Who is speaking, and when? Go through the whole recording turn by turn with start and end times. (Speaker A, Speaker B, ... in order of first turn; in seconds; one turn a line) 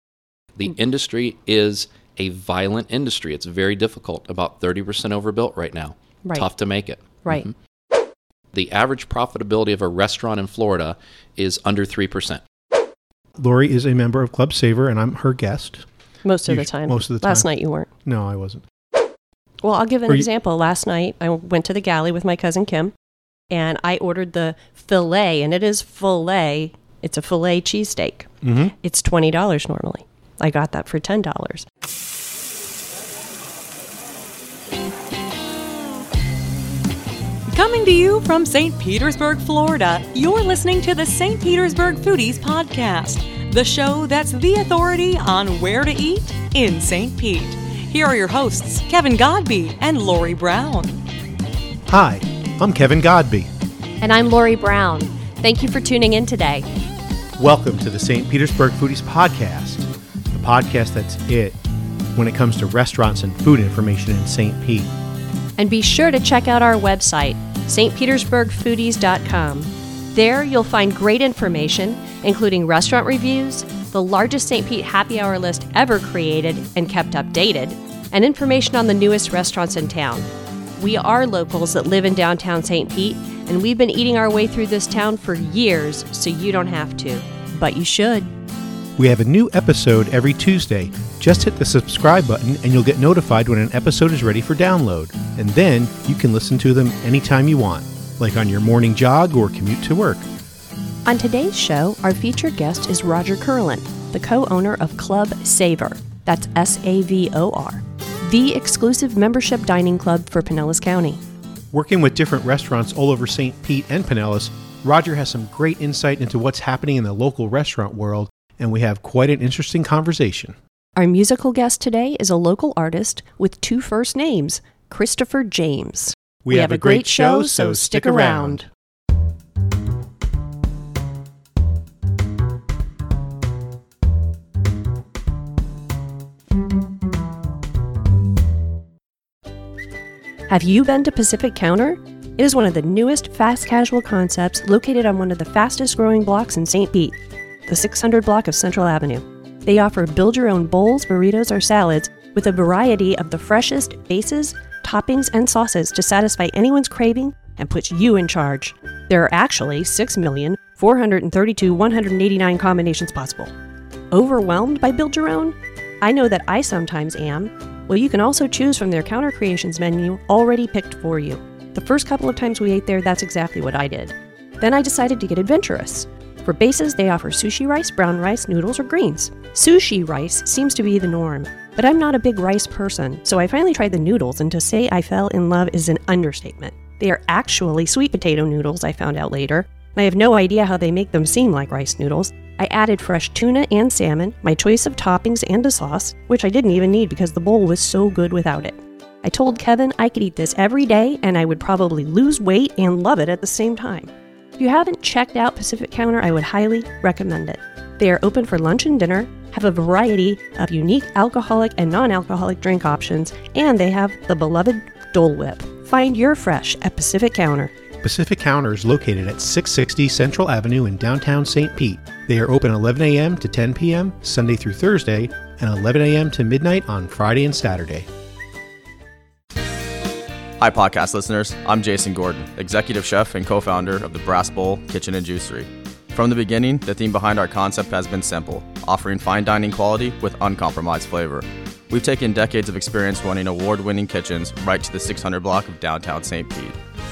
Speaker A: 0.5-7.5
Speaker A: 8.5-12.4
Speaker B: 13.4-15.8
Speaker C: 16.2-17.9
Speaker B: 16.5-17.5
Speaker B: 18.0-18.6
Speaker C: 19.6-22.9
Speaker C: 23.5-31.6
Speaker B: 28.4-28.7
Speaker D: 37.5-51.0
Speaker B: 51.9-53.5
Speaker C: 54.0-56.7
Speaker B: 57.4-61.6
Speaker B: 62.1-64.9
Speaker C: 65.6-88.3
Speaker B: 89.0-100.2
Speaker C: 101.0-111.2
Speaker B: 111.7-120.5
Speaker C: 121.0-128.7
Speaker B: 126.4-128.6
Speaker C: 140.5-163.5
Speaker C: 164.1-217.7
Speaker B: 218.0-228.1
Speaker E: 230.6-246.8